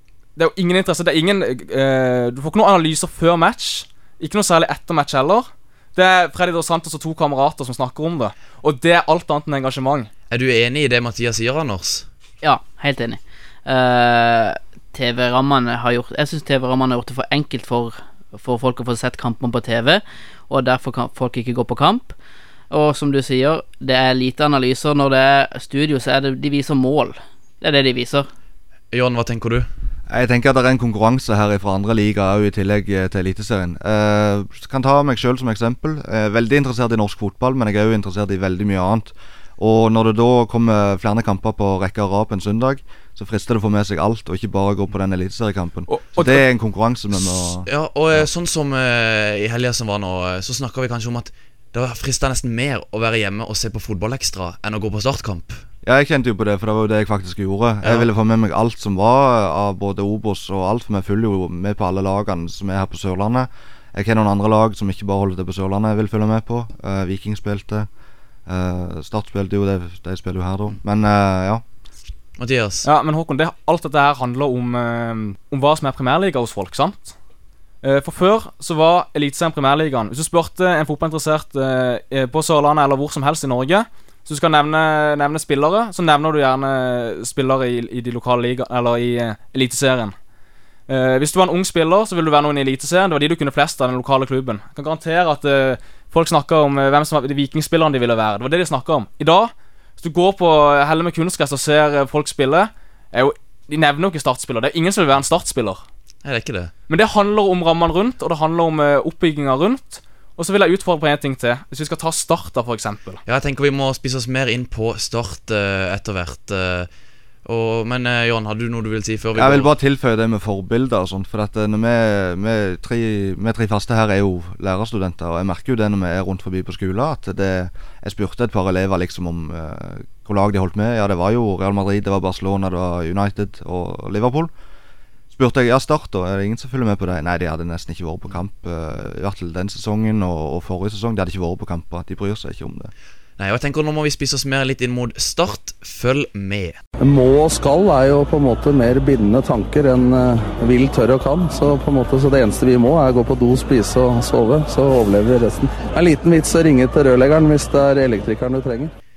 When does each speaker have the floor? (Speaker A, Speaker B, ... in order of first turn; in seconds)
Speaker A: 0.4-10.1, 45.9-46.3, 72.8-77.2, 77.8-90.2, 90.9-105.8, 106.9-113.2
Speaker B: 10.3-12.1, 28.9-29.7, 47.7-55.6, 57.8-58.1, 72.4-72.9, 106.2-106.7, 113.3-116.9, 117.5-119.7, 143.4-146.8
Speaker C: 12.4-22.1, 22.7-28.3
Speaker D: 30.1-48.3, 55.8-67.9, 68.5-71.6, 119.3-134.5, 135.3-142.9
Speaker E: 147.0-158.9